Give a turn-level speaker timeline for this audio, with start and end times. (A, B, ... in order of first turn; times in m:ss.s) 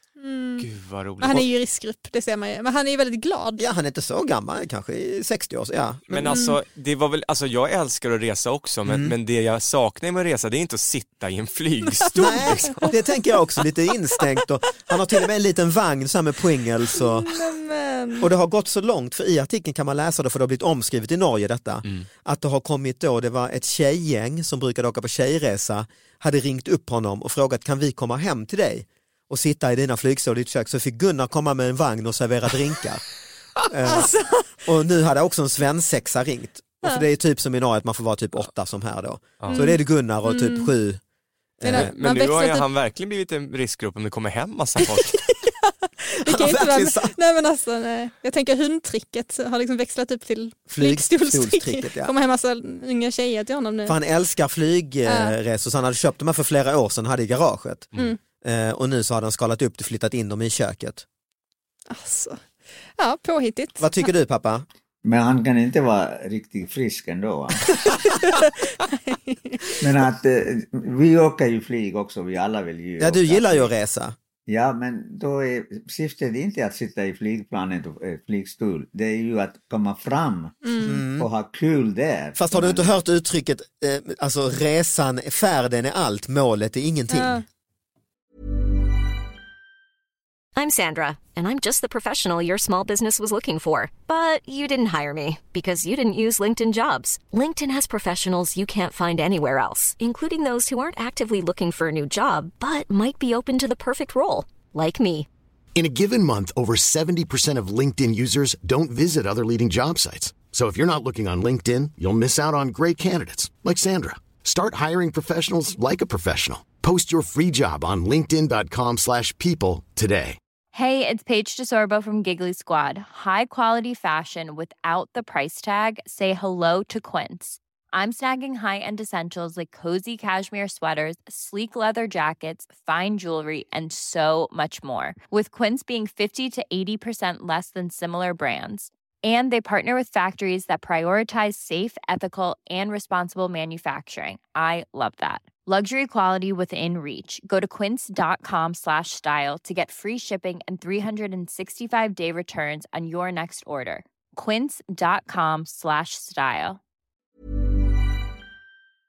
0:00.2-0:00.7 A
0:00.6-0:01.4 B
0:01.2-0:03.6 A
0:03.6-0:06.4 C
0:06.1-0:12.9 B
0:06.3-0:06.6 A
0:08.9-0:09.1 C
0:12.0-0:13.0 A
0:12.1-0:17.4 C
0:14.2-0:14.9 A
0:16.9-0:18.3 A
0:18.2-0:33.0 C
0:33.7-0:41.0 C
0:33.8-0:34.6 A
0:39.4-0:39.7 B
0:39.5-0:40.7 A
0:41.6-0:41.9 C
0:41.6-0:42.7 A
0:41.7-0:45.2 B
0:44.8-0:54.0 A
0:46.2-0:47.2 C
0:50.7-0:52.1 C
0:53.8-0:57.9 C
0:55.0-0:55.4 A
0:58.4-1:01.0 C
1:01.9-1:02.4 A
1:03.0-1:03.9 A
1:03.8-1:04.6 C
1:05.0-1:07.9 D
1:07.9-1:09.8 A
1:09.8-1:13.7 D
1:13.0-1:14.1 C
1:14.5-1:20.6 D
1:20.6-1:21.0 A
1:20.8-1:21.3 C
1:21.1-1:22.9 D
1:22.4-1:27.4 C
1:27.1-1:27.4 A
1:30.5-1:45.3 E
1:45.8-2:00.4 F
2:00.7-2:36.8 G